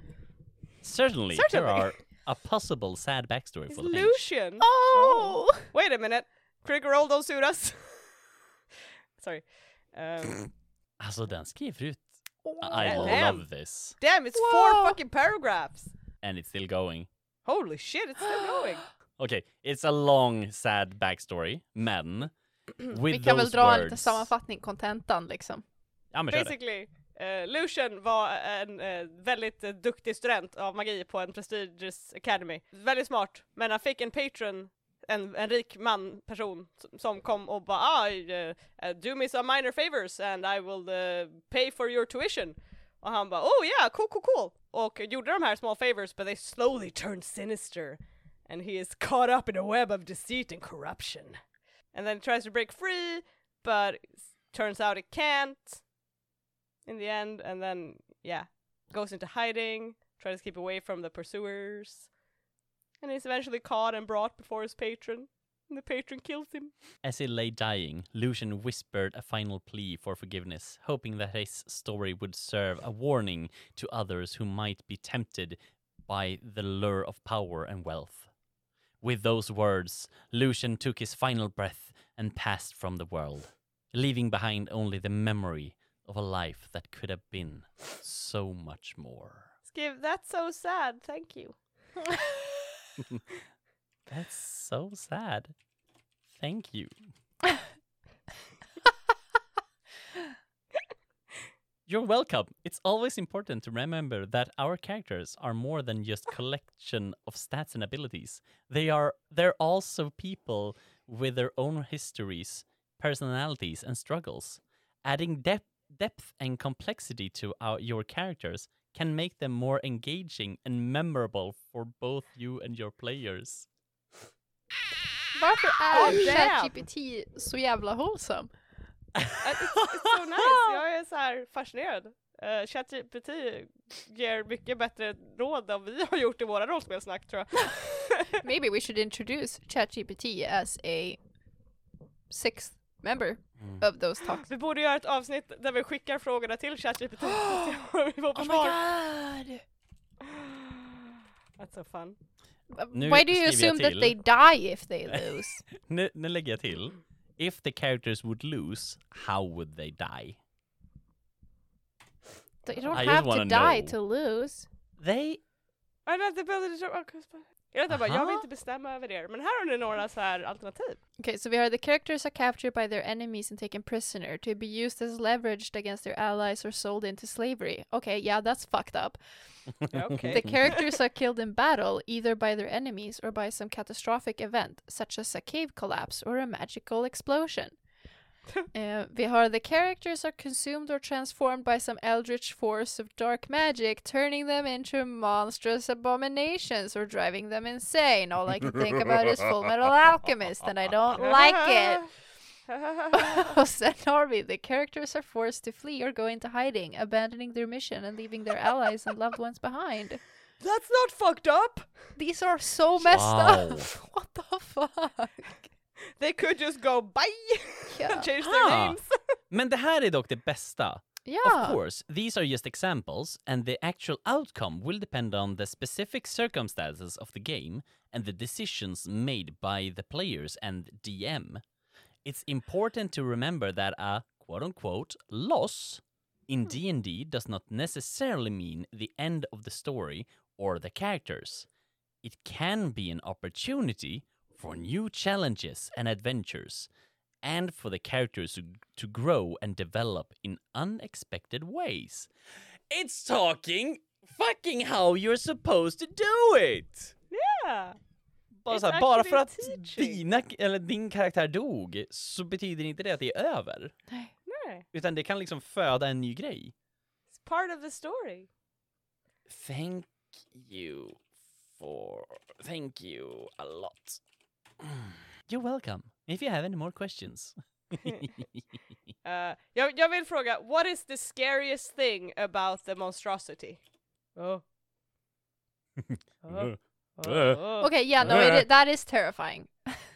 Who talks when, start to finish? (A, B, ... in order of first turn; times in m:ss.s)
0:00.8-0:04.2 A
0:01.3-0:01.9 B
0:03.7-0:08.2 B
0:04.6-0:05.7 C
0:09.2-0:10.5 B
0:11.0-0:14.0 A
0:12.4-0:13.2 C
0:12.8-0:13.4 B
0:14.0-0:15.9 B
0:14.3-0:15.0 C
0:16.2-0:17.1 A
0:17.4-0:18.9 B
0:19.2-0:22.3 A
0:22.8-0:24.3 A
0:23.1-0:25.6 C
0:26.1-0:26.6 A
0:26.3-0:51.4 B
0:51.9-0:55.8 B
0:56.8-1:02.1 B
1:03.0-1:06.7 B
1:07.0-1:18.3 A
1:19.0-1:29.5 A
1:29.7-1:31.6 B
1:33.0-1:33.2 A
1:34.1-1:35.5 A
1:36.3-1:36.9 A
1:41.9-2:03.7 A
2:05.3-2:08.5 C
2:05.9-2:06.7 B
2:06.0-2:06.4 A
2:09.2-2:10.8 A
2:09.4-2:18.4 B
2:18.3-2:21.2 C
2:22.3-2:24.4 C
2:24.4-2:28.8 B
2:27.2-2:27.8 C
2:28.3-2:29.6 C
2:30.2-2:32.2 B
2:32.7-2:35.6 C
2:32.9-2:34.2 A
2:35.1-2:40.4 A
2:42.6-2:44.7 C
2:42.9-2:44.0 A
2:45.0-2:45.4 A
2:46.0-2:51.0 B
2:47.9-2:48.5 A
2:51.2-2:59.2 C
2:59.9-3:00.6 A
2:59.9-3:00.8 B
3:00.3-3:07.8 C
3:08.7-3:22.0 C
3:21.2-3:22.1 B
3:22.7-3:23.5 B
3:23.1-3:30.2 C
3:30.6-3:31.9 B
3:32.2-3:35.7 C
3:33.0-3:33.9 A
3:36.2-3:39.2 B
3:37.9-3:38.3 C
3:38.4-3:39.0 A
3:39.5-3:51.6 A
3:41.2-3:41.8 C
3:52.2-4:01.7 A
4:02.2-4:06.9 A
4:07.4-4:12.3 A
4:12.9-4:17.1 A
4:17.3-4:18.0 B
4:18.6-4:23.9 A
4:18.7-4:20.2 B
4:24.5-4:24.8 B
4:24.9-4:26.7 A
4:27.3-4:28.5 B
4:29.5-4:31.2 A
4:31.8-4:34.2 A
4:34.8-4:38.6 A
4:39.2-4:43.8 B
4:44.4-4:44.6 B
4:46.0-4:47.6 A
4:46.4-4:47.9 B
4:47.8-4:50.0 C
4:48.2-4:48.6 A